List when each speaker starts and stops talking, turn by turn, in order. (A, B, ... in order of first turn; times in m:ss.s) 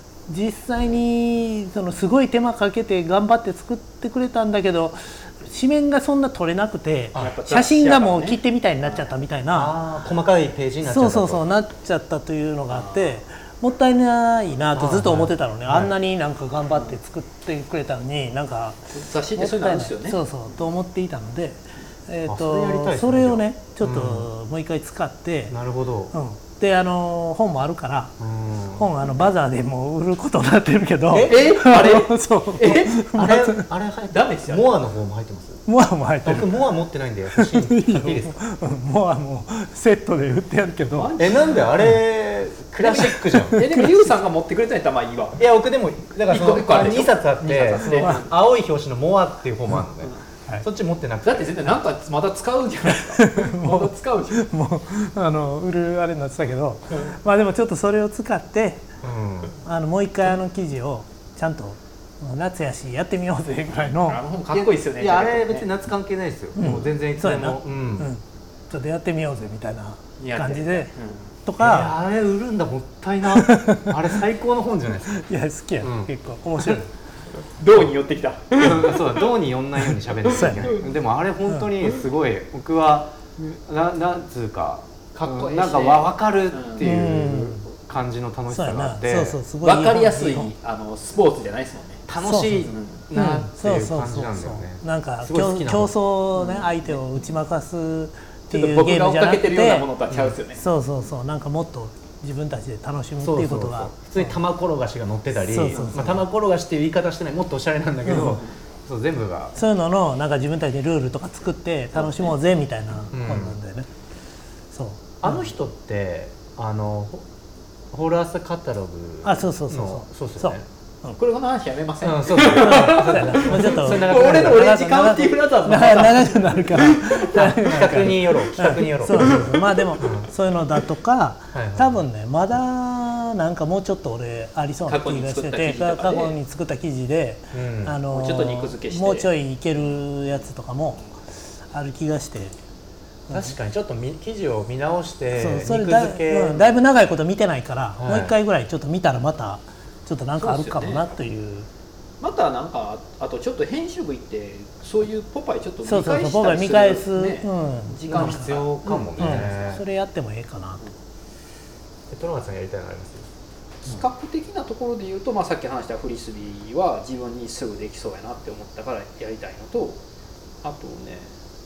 0:00.3-0:09.8 A
0:07.1-0:09.1 B
0:09.5-0:11.4 C
0:10.8-0:18.8 A
0:12.7-0:13.2 B
0:14.7-0:15.9 C
0:18.9-0:20.2 B
0:19.3-0:25.6 A
0:22.3-0:24.3 C
0:25.5-0:26.1 C
0:26.1-0:28.2 A
0:28.2-0:28.9 C
0:28.7-0:33.7 A
0:31.1-0:31.8 C
0:31.2-0:33.0 B
0:32.6-0:35.6 C
0:34.1-0:34.7 B
0:35.6-0:36.7 A
0:36.2-0:38.4 C
0:37.3-0:41.1 A
0:40.9-0:41.6 B
0:41.2-0:43.6 C
0:42.8-0:45.4 B
0:43.3-0:44.1 A
0:45.4-0:51.5 C
0:46.3-0:48.3 B
0:47.8-0:48.3 A
0:50.0-0:50.6 B
0:51.2-0:54.4 B
0:53.0-0:58.9 A
0:59.0-0:59.6 C
0:59.6-1:04.2 A
1:03.9-1:05.7 B
1:04.5-1:08.1 C
1:06.6-1:10.9 A
1:10.2-1:11.3 B
1:11.4-1:11.9 A
1:11.6-1:15.2 C
1:13.3-1:13.9 A
1:15.1-1:16.9 A
1:15.8-1:16.1 C
1:17.6-1:19.0 B
1:18.6-1:29.4 C
1:20.3-1:20.7 A
1:20.5-1:20.8 B
1:25.1-1:26.9 B
1:26.8-1:27.7 A
1:28.5-1:30.5 A
1:29.6-1:33.0 B
1:32.1-1:35.9 C
1:32.2-1:39.9 A
1:36.4-1:37.0 B
1:38.5-1:40.6 B
1:40.1-1:40.3 C
1:40.5-1:43.9 A
1:43.2-1:49.6 C
1:45.4-1:46.2 A
1:45.7-1:46.0 B
1:48.0-1:48.4 A
1:49.6-1:53.9 A
1:51.9-1:52.3 B
1:53.1-1:53.6 C
1:54.7-1:55.3 A
1:55.2-1:57.2 C
1:57.9-2:00.6 C
1:59.2-2:01.2 A
2:01.2-2:07.5 B
2:02.0-2:04.6 C
2:02.5-2:21.1 A
2:07.3-2:10.3 C
2:11.5-2:12.0 C
2:14.8-2:16.3 B
2:17.5-2:18.0 C
2:18.1-2:19.3 B
2:21.7-2:22.5 A
2:23.3-2:23.6 A
2:23.3-2:26.7 C
2:25.3-2:31.7 A
2:28.0-2:28.3 C
2:30.4-2:31.1 B
2:32.2-2:39.5 B
2:35.8-2:38.6 A
2:38.1-2:39.8 C
2:39.2-2:40.8 A
2:42.1-2:43.3 C
2:43.8-2:50.0 B
2:50.6-2:51.3 B